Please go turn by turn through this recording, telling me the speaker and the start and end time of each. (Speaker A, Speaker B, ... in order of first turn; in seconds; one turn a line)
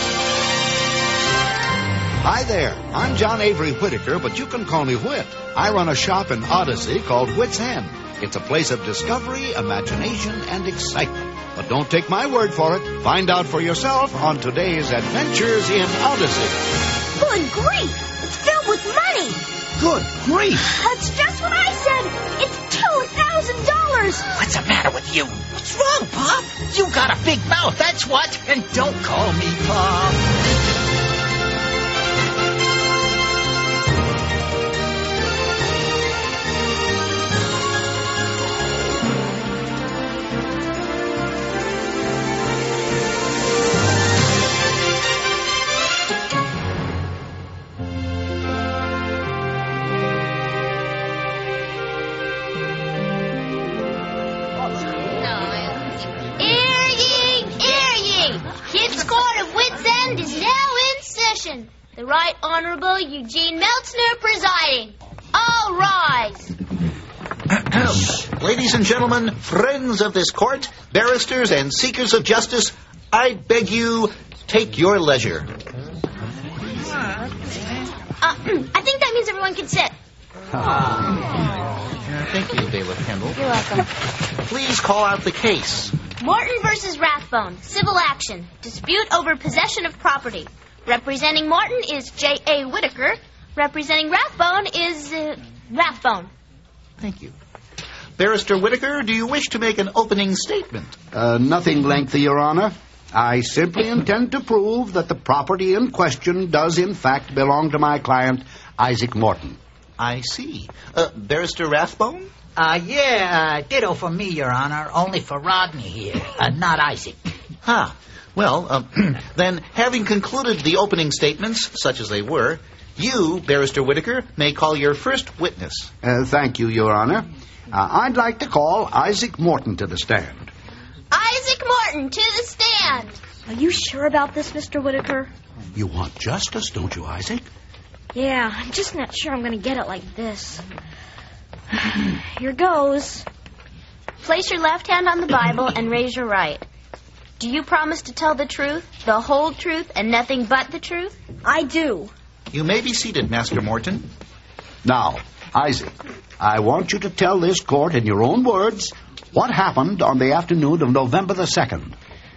Speaker A: 2.2-16.6
Speaker B: 17.2-19.4
Speaker A: 19.8-20.7
Speaker B: 20.6-24.2
Speaker C: 24.3-30.2
Speaker D: 55.1-66.5
Speaker E: 67.5-75.5
Speaker D: 78.2-79.9
Speaker E: 82.1-83.6
Speaker D: 83.3-83.9
Speaker E: 84.4-86.0
Speaker D: 86.2-96.3
Speaker E: 97.0-97.3
Speaker E: 98.2-101.0
Speaker A: 101.1-109.6
Speaker E: 110.0-112.3
Speaker C: 112.5-117.3
Speaker E: 117.6-125.9
Speaker A: 126.0-130.5
Speaker D: 131.1-133.2
Speaker B: 133.5-135.3
Speaker A: 135.7-137.4
Speaker B: 138.1-140.6
Speaker B: 141.7-143.2
Speaker D: 144.2-146.6
Speaker D: 147.4-151.1
Speaker B: 151.4-152.1
Speaker E: 152.5-154.1
Speaker A: 154.8-161.9